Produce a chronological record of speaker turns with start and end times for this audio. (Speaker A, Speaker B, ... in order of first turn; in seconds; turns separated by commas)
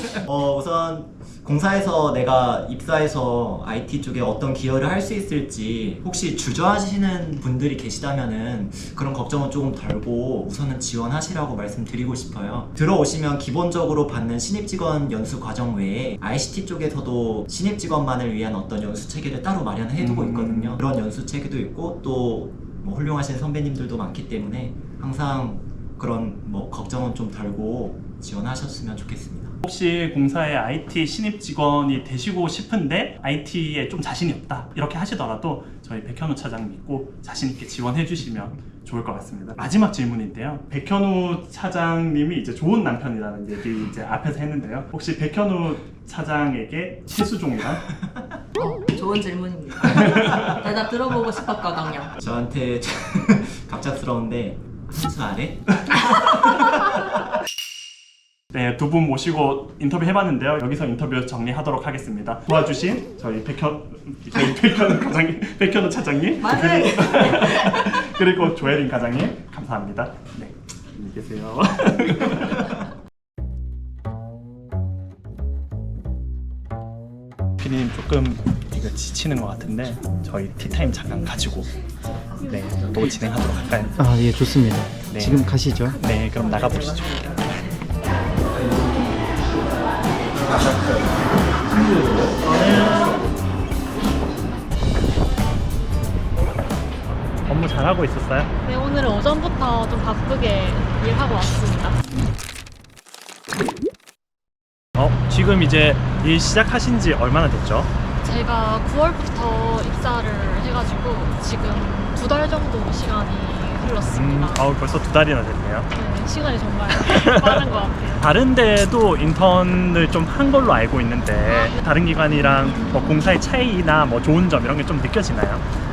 Speaker A: 0.2-29.6, Speaker B: 20.0-20.8, Speaker B: 29.6-47.8, Speaker C: 48.6-52.1, Speaker B: 49.9-50.5, Speaker A: 52.2-55.9, Speaker B: 58.5-72.8, Speaker C: 66.4-68.1, Speaker B: 77.6-81.7, Speaker B: 82.4-84.0, Speaker D: 84.0-86.0, Speaker B: 85.1-87.6, Speaker B: 91.7-93.2, Speaker B: 97.5-98.5, Speaker E: 98.6-102.0, Speaker B: 105.0-107.9, Speaker E: 108.2-114.7, Speaker B: 114.0-115.9, Speaker E: 115.9-118.3, Speaker B: 117.0-125.7, Speaker E: 121.5-123.3